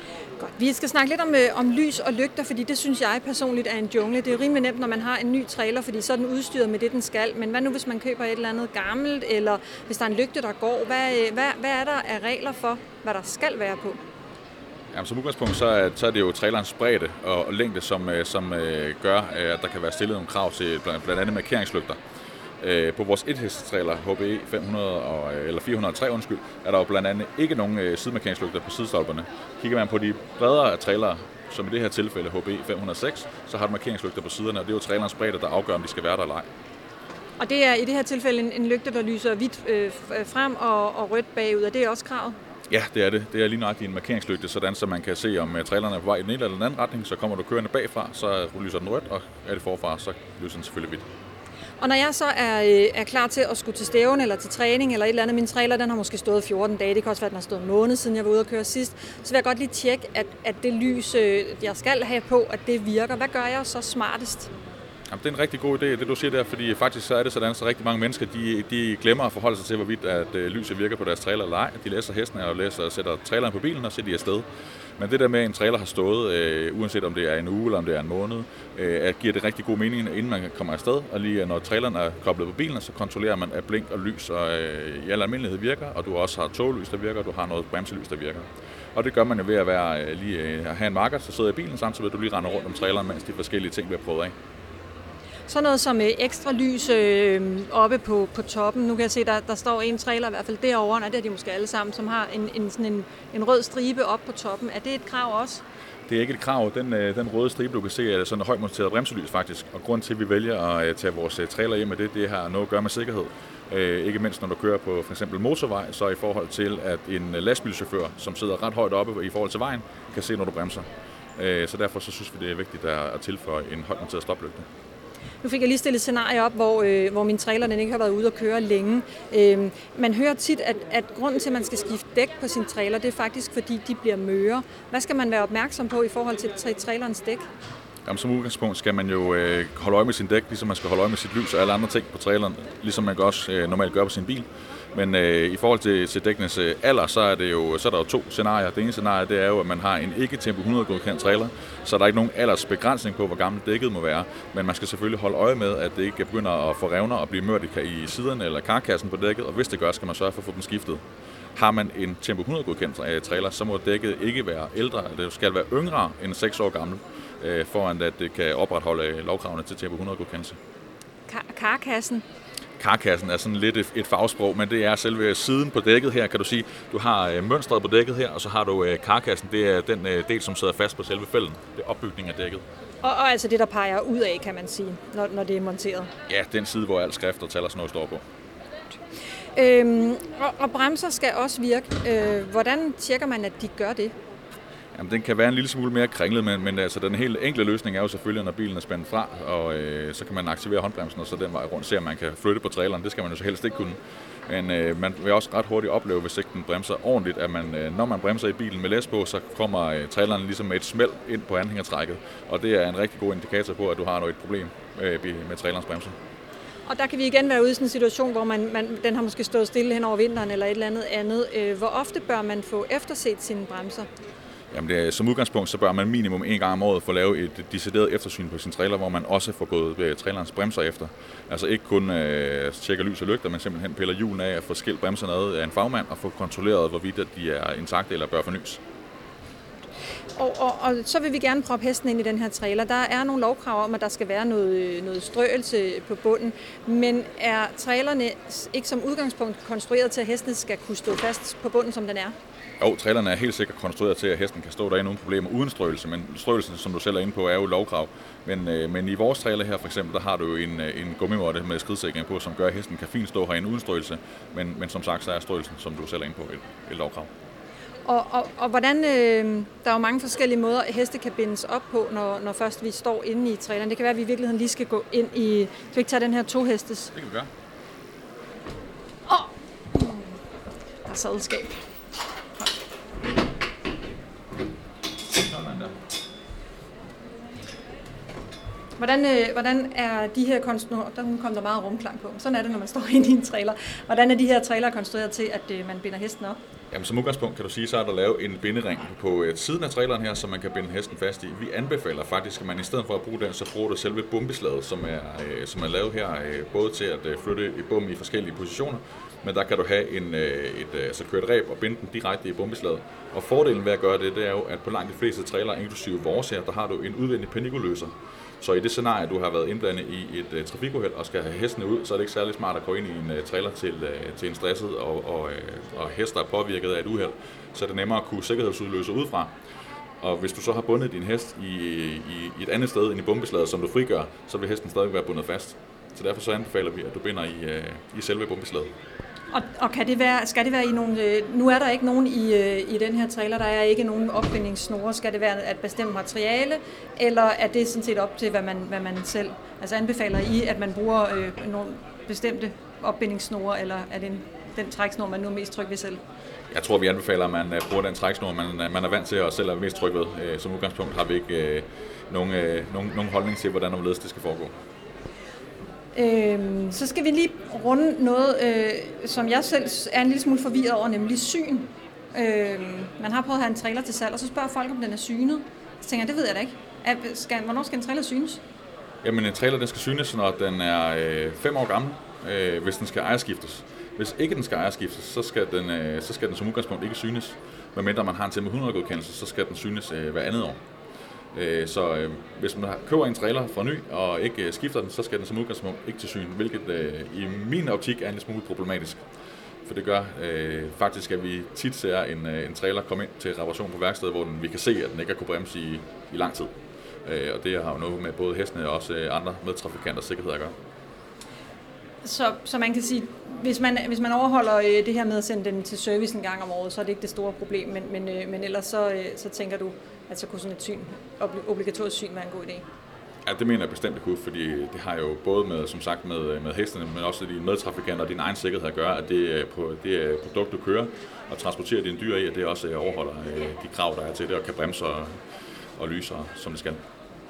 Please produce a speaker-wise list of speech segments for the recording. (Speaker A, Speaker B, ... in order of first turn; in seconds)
Speaker A: 0.4-14.0, 37.4-42.4, 51.8-64.5, 95.5-105.6, 125.4-137.5, 171.3-172.2, 183.0-186.1, 189.6-194.2, 216.9-224.1, 240.4-252.4, 268.1-277.1, 279.3-280.3, 281.1-281.8, 289.0-296.6, 339.5-356.2, 366.1-378.6, 412.2-422.9
Speaker B: 14.9-22.0, 22.6-36.5, 42.7-51.1, 65.1-74.5, 75.0-94.3, 106.1-124.7, 138.1-161.0, 161.6-170.6, 172.8-182.7, 186.3-188.2, 194.9-216.2, 224.7-238.8, 252.8-267.3, 277.1-277.5, 285.3-285.9, 296.9-329.5, 330.2-338.9, 356.7-364.7, 379.2-390.8, 391.5-399.2, 399.9-406.7, 407.2-410.7, 423.4-435.4, 436.0-437.0